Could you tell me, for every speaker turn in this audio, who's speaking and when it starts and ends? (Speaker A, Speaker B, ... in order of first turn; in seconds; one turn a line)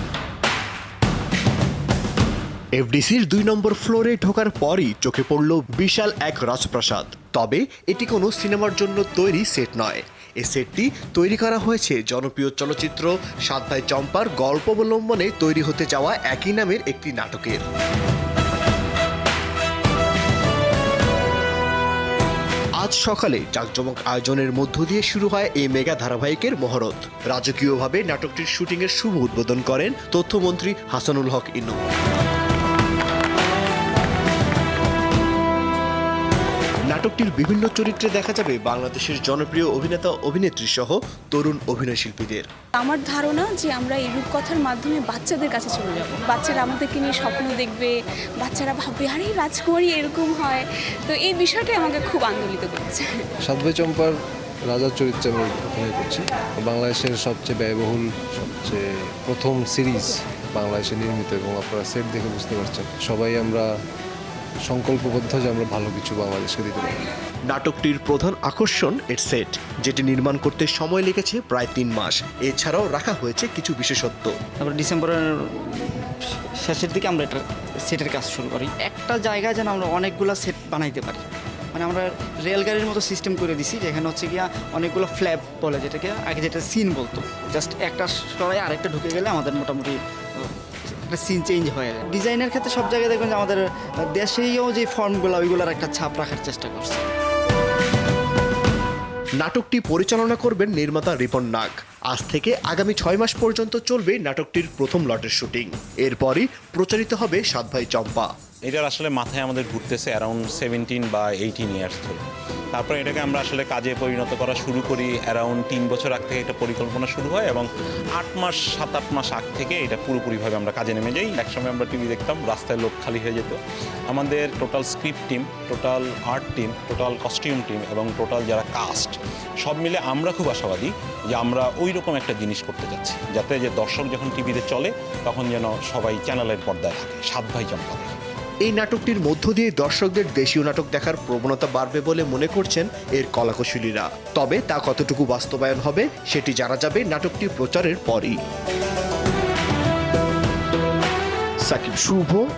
Speaker A: 2.8-17.6
Speaker A: 22.8-31.8
Speaker A: 36.9-42.5
Speaker B: 42.8-53.2
Speaker C: 53.5-54.1
Speaker C: 54.7-63.7
Speaker C: 64.7-66.9
Speaker A: 67.5-74.3
Speaker D: 74.6-93.6
Speaker D: 94.1-97.1
Speaker A: 99.4-108.3
Speaker E: 108.7-138.1
Speaker A: 138.7-148.3
Speaker A: 151.7-152.4